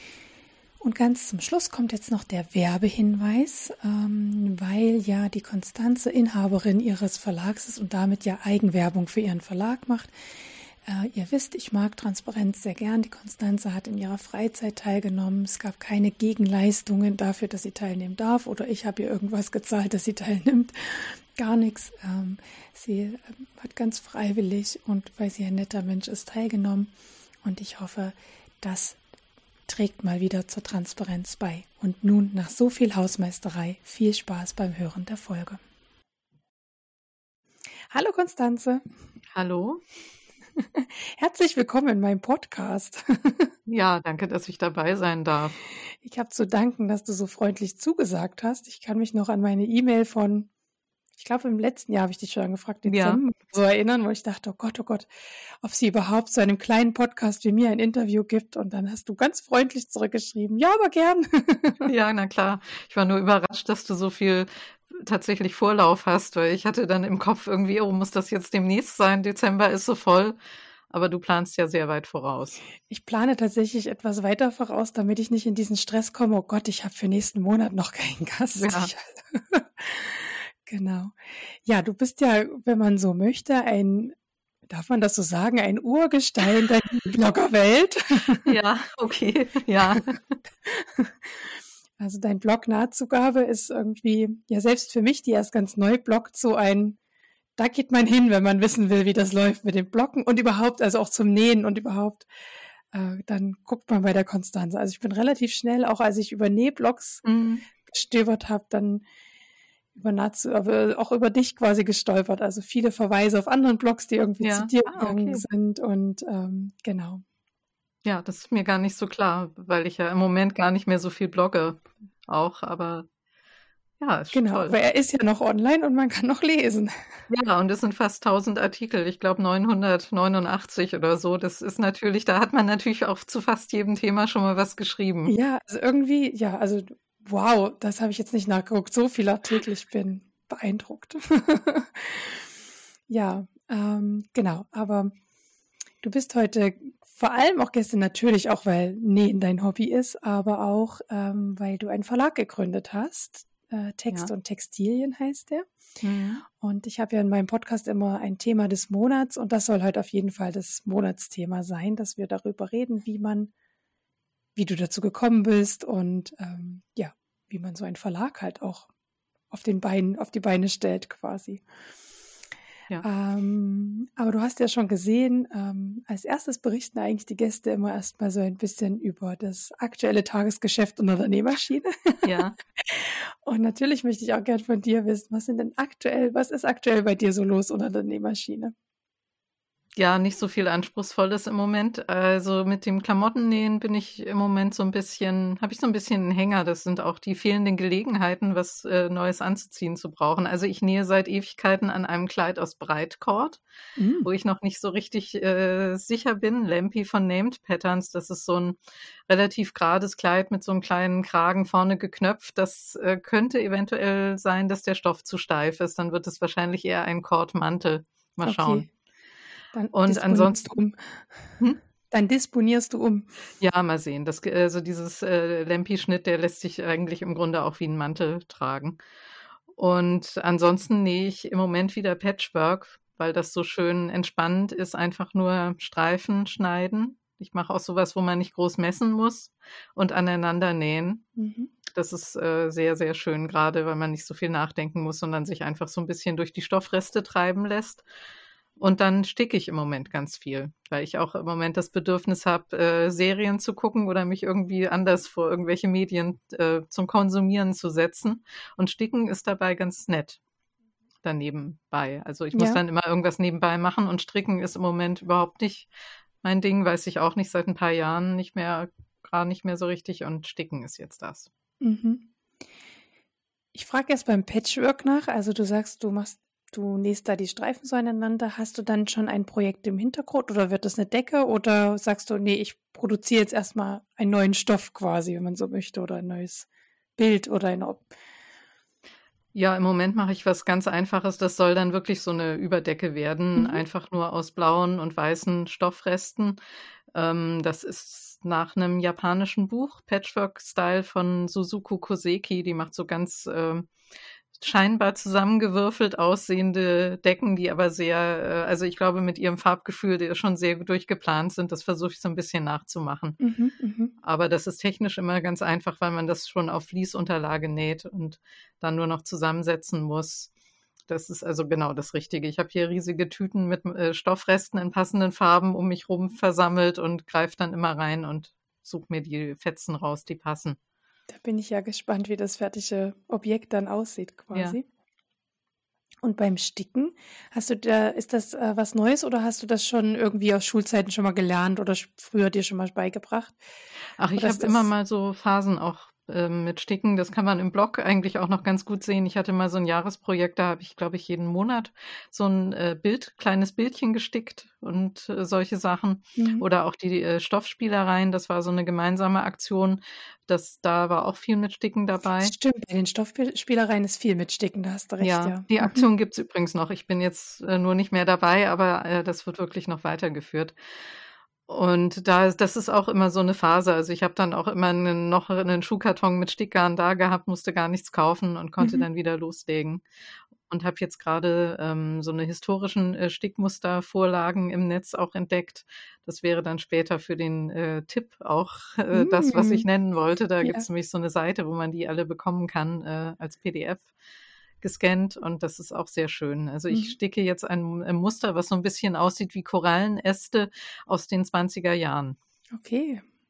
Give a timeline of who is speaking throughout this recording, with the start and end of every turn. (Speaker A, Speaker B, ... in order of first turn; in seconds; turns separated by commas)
Speaker A: 0.8-10.1, Speaker A: 10.8-26.9, Speaker A: 27.4-29.0, Speaker A: 29.7-35.6, Speaker A: 37.9-38.9, Speaker B: 39.3-39.8, Speaker A: 40.6-43.5, Speaker B: 43.7-45.5, Speaker A: 46.0-50.5, Speaker A: 51.2-55.1, Speaker B: 52.9-53.2, Speaker A: 55.6-61.9, Speaker B: 61.9-70.4, Speaker B: 70.9-72.6, Speaker A: 72.9-84.2, Speaker B: 78.5-78.9, Speaker A: 84.7-88.5, Speaker B: 88.4-90.2, Speaker A: 90.7-97.0, Speaker A: 97.6-102.3, Speaker A: 102.9-107.2, Speaker B: 107.2-107.6, Speaker A: 107.8-109.0, Speaker A: 110.0-117.2, Speaker B: 114.4-115.4, Speaker B: 118.0-123.1, Speaker B: 124.0-124.8, Speaker A: 124.3-127.0, Speaker B: 127.3-135.3, Speaker A: 135.3-142.5, Speaker A: 143.1-145.1, Speaker A: 146.0-155.7, Speaker B: 156.0-156.4, Speaker A: 156.4-163.5, Speaker A: 164.6-168.9, Speaker A: 169.5-171.6, Speaker A: 173.0-188.7, Speaker B: 182.2-182.6, Speaker B: 190.0-203.6, Speaker A: 204.0-204.3, Speaker B: 204.2-218.9, Speaker A: 218.4-218.9, Speaker A: 219.7-221.5, Speaker B: 219.9-220.6, Speaker A: 222.1-223.3, Speaker B: 223.6-229.0, Speaker B: 229.7-241.2, Speaker A: 241.4-241.7, Speaker B: 241.9-248.0, Speaker B: 248.8-260.4, Speaker B: 261.2-265.9, Speaker A: 262.5-262.8, Speaker B: 266.4-271.5, Speaker A: 271.8-272.3, Speaker A: 273.7-288.1, Speaker B: 289.5-296.6, Speaker A: 293.6-293.8, Speaker B: 297.1-303.9, Speaker B: 304.6-313.4, Speaker A: 313.4-314.1, Speaker B: 314.2-320.5, Speaker B: 321.1-330.8, Speaker A: 331.3-334.8, Speaker A: 336.2-343.6, Speaker B: 344.2-362.5, Speaker A: 344.4-344.9, Speaker A: 356.4-356.6, Speaker A: 362.4-366.1, Speaker B: 365.2-370.8, Speaker B: 371.7-380.0, Speaker A: 378.8-379.1, Speaker B: 380.7-394.1, Speaker A: 389.1-389.9, Speaker B: 394.8-402.4, Speaker A: 396.9-397.1, Speaker A: 402.8-403.2